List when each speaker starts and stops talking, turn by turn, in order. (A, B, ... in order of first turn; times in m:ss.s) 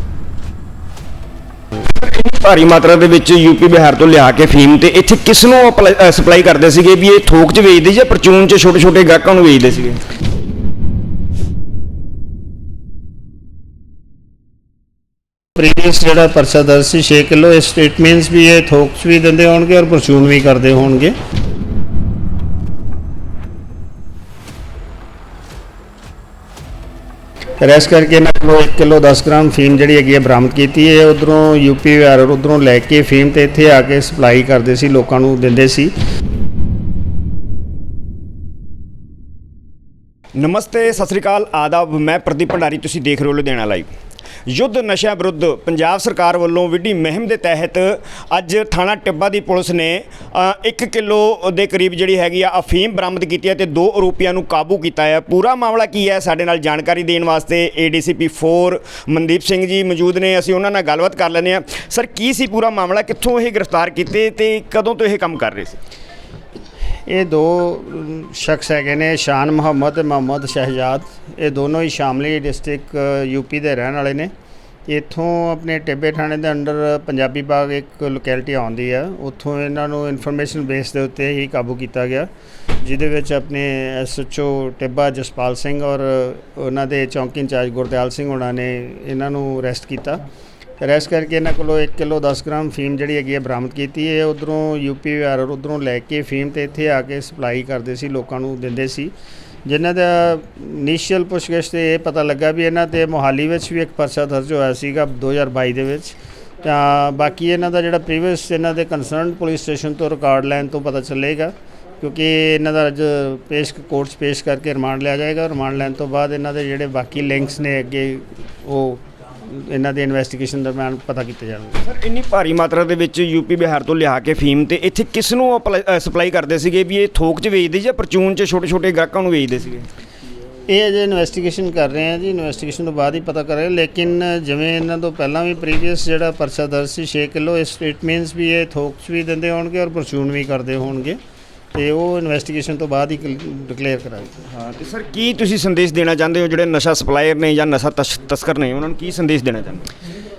0:01.8-0:10.0 A
0:15.6-0:21.1 B
0:27.6-0:35.9 B
0:40.4-0:43.9 A
0:44.5-1:05.8 A
1:07.0-1:14.3 B
1:14.9-1:22.3 B
1:22.8-1:30.2 B
1:30.8-1:39.1 B
1:39.6-2:01.8 B
2:01.8-2:09.9 A
2:10.7-2:21.2 B
2:21.7-2:24.4 B
2:24.5-2:29.9 A